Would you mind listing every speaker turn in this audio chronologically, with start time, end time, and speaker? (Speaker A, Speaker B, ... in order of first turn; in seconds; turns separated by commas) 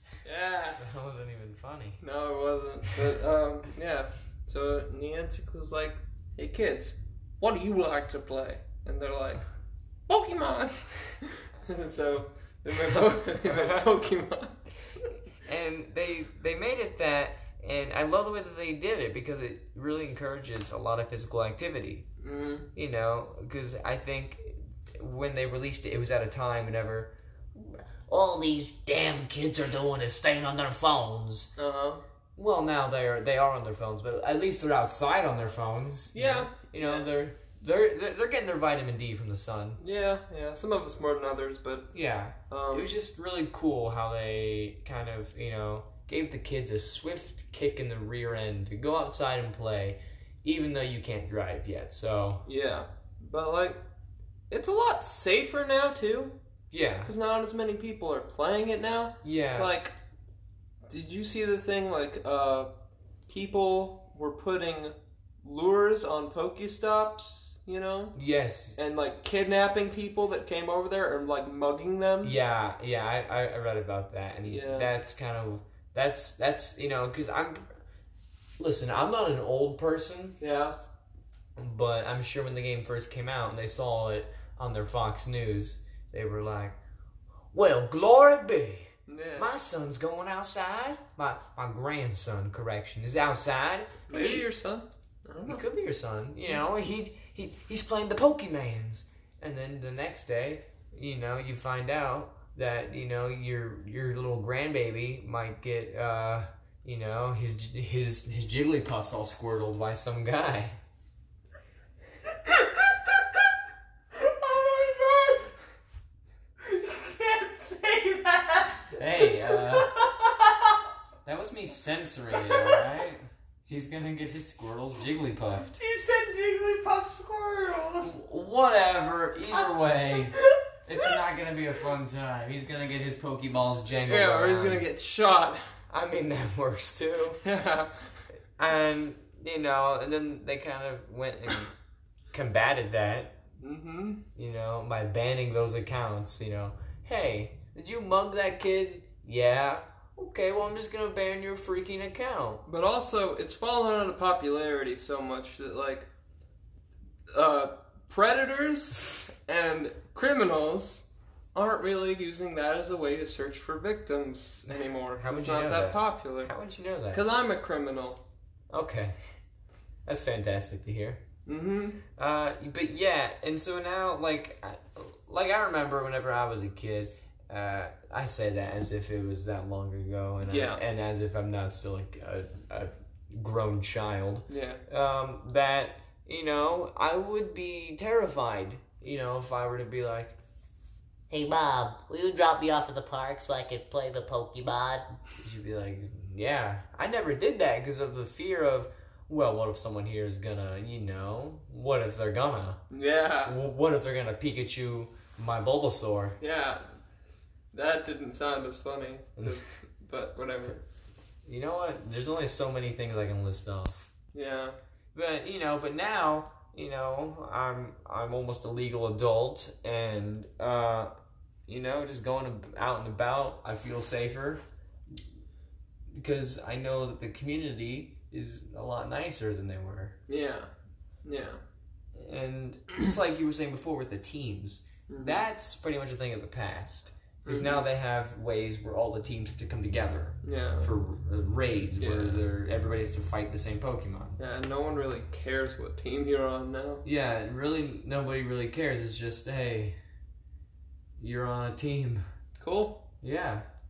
Speaker A: 0.2-0.8, Speaker B: 0.8-2.0, Speaker A: 2.0-9.4, Speaker A: 10.1-14.6, Speaker B: 12.9-13.8, Speaker B: 15.3-22.1, Speaker A: 22.2-22.7, Speaker B: 22.7-31.5, Speaker A: 31.6-32.0, Speaker B: 32.4-39.8, Speaker A: 36.1-37.0, Speaker A: 39.8-41.9, Speaker B: 41.9-52.4, Speaker A: 42.5-42.9, Speaker A: 52.5-53.8, Speaker A: 54.5-56.3, Speaker B: 56.7-57.1, Speaker A: 57.0-59.9, Speaker B: 59.2-59.7, Speaker A: 60.9-62.7, Speaker A: 63.3-68.2, Speaker B: 68.1-68.8, Speaker A: 68.7-72.4, Speaker B: 72.2-77.7, Speaker A: 74.4-74.9, Speaker B: 78.6-80.4, Speaker A: 80.4-80.8, Speaker B: 81.5-86.8, Speaker B: 87.5-94.5, Speaker A: 89.1-89.5, Speaker A: 94.1-95.6, Speaker B: 95.5-110.8, Speaker A: 114.1-115.5, Speaker A: 116.6-120.5, Speaker B: 118.9-119.9, Speaker B: 121.2-125.7, Speaker A: 122.3-122.8, Speaker A: 125.6-128.1, Speaker B: 128.0-134.9, Speaker A: 134.0-135.6, Speaker B: 135.9-137.4, Speaker A: 137.4-138.1, Speaker B: 138.6-141.7, Speaker B: 142.3-143.4, Speaker A: 143.6-144.2, Speaker B: 144.3-152.6, Speaker A: 152.7-156.1, Speaker A: 157.3-166.5, Speaker B: 165.1-167.3, Speaker A: 167.1-168.2, Speaker B: 168.7-169.1, Speaker B: 170.1-171.2, Speaker A: 171.4-172.0, Speaker B: 172.1-190.4, Speaker A: 180.4-180.8, Speaker A: 184.5-184.8, Speaker C: 191.3-195.2, Speaker B: 195.4-202.8, Speaker A: 202.9-203.6, Speaker B: 203.4-206.4, Speaker A: 206.4-206.8, Speaker A: 207.7-210.8, Speaker B: 211.4-214.1, Speaker A: 214.3-214.8, Speaker B: 215.1-221.1, Speaker B: 221.7-224.6, Speaker B: 226.1-230.2, Speaker A: 230.3-230.7, Speaker A: 231.2-231.6, Speaker B: 232.1-244.4, Speaker A: 235.1-235.4, Speaker A: 237.4-237.8, Speaker A: 240.4-240.9, Speaker A: 242.0-242.4, Speaker A: 244.4-247.1, Speaker B: 247.0-250.0, Speaker B: 251.2-252.2, Speaker A: 252.6-253.1, Speaker B: 253.2-253.7